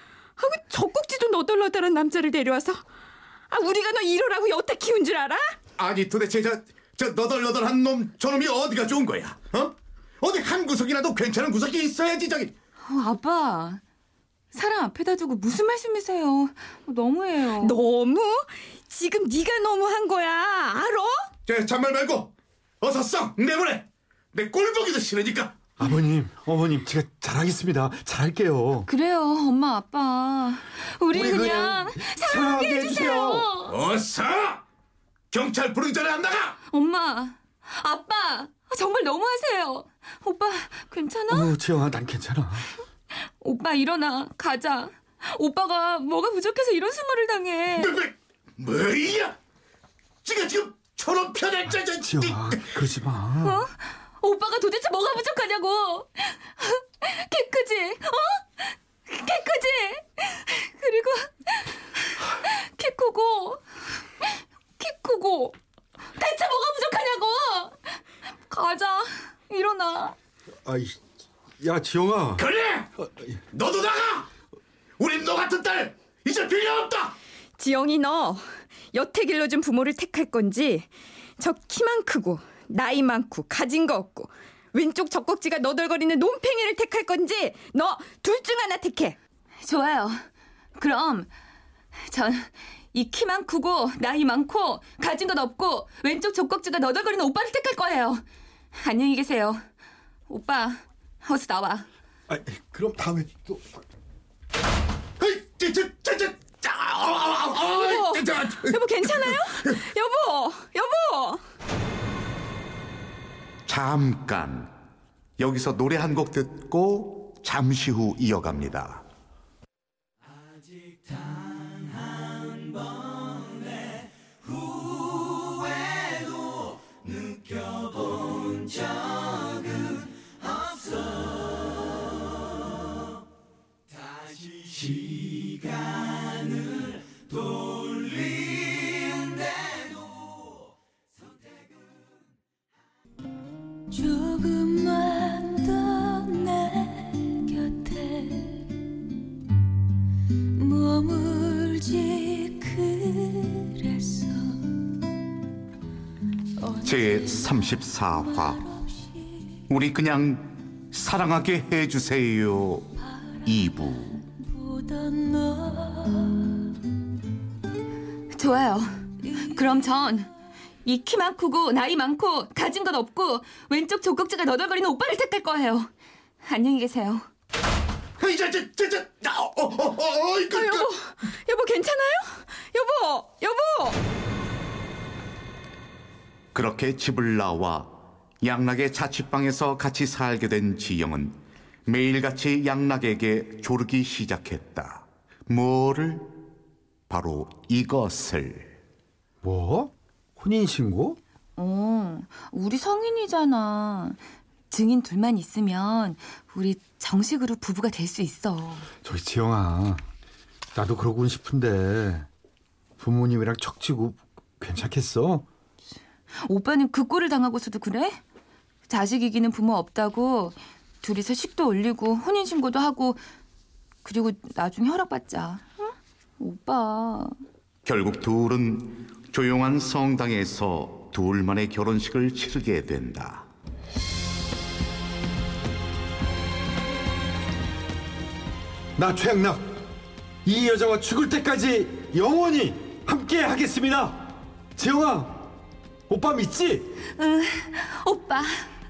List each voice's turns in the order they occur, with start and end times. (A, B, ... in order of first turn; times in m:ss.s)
0:00.4-0:02.8 A
0:03.5-0:05.6 A
0:05.8-0:12.5 B
0:12.8-0:13.8 C
0:14.5-0:17.8 C
0:17.5-0:21.3 A
0:21.5-0:25.6 B
0:25.8-0:28.9 D
0:28.9-0:33.8 C
0:31.1-0:33.5 D
0:33.7-0:34.6 B
0:35.3-0:36.6 B
0:36.7-0:41.5 C
0:41.3-0:42.7 D
0:43.1-0:48.0 C
0:47.8-0:49.4 B
0:50.2-0:52.7 B
0:51.9-0:53.7 D
0:53.4-1:03.6 C
1:04.2-1:05.6 C
1:06.2-1:08.0 C
1:08.5-1:10.2 C
1:10.7-1:11.0 D
1:11.6-1:12.4 D
1:12.4-1:12.9 B
1:13.0-1:13.4 D
1:13.5-1:14.3 B
1:15.0-1:17.2 B
1:17.6-1:29.2 A
1:29.6-1:30.2 C
1:30.8-1:31.3 C
1:32.1-1:38.2 C
1:38.8-1:39.6 C
1:40.3-1:41.9 C
1:42.3-1:43.8 D
1:45.2-1:49.1 B
1:47.6-1:51.4 A
1:53.7-1:54.7 B
1:55.4-1:59.0 B
2:23.9-2:28.7 C
2:30.6-2:34.8 C
2:36.8-2:38.7 B
2:39.7-2:42.9 B
2:43.4-2:44.3 B
2:44.7-2:46.6 C
2:48.3-2:50.3 C
2:50.8-2:55.9 C
2:56.4-2:57.3 C
2:58.2-3:00.9 B
3:00.5-3:04.0 A
3:06.5-3:16.3 B
3:17.1-3:18.7 B
3:19.4-3:21.2 D
3:21.6-3:24.2 C
3:24.7-3:28.9 C
3:29.0-3:30.0 D
3:30.7-3:32.3 D
3:33.0-3:35.4 D
3:36.4-3:38.2 C
3:38.9-3:43.2 C
3:44.0-3:45.9 C
3:46.4-3:47.3 C
3:47.8-3:53.5 B
3:59.0-3:59.8 D
4:00.4-4:04.2 D
4:04.8-4:05.5 D
4:06.1-4:06.9 D
4:07.1-4:08.7 C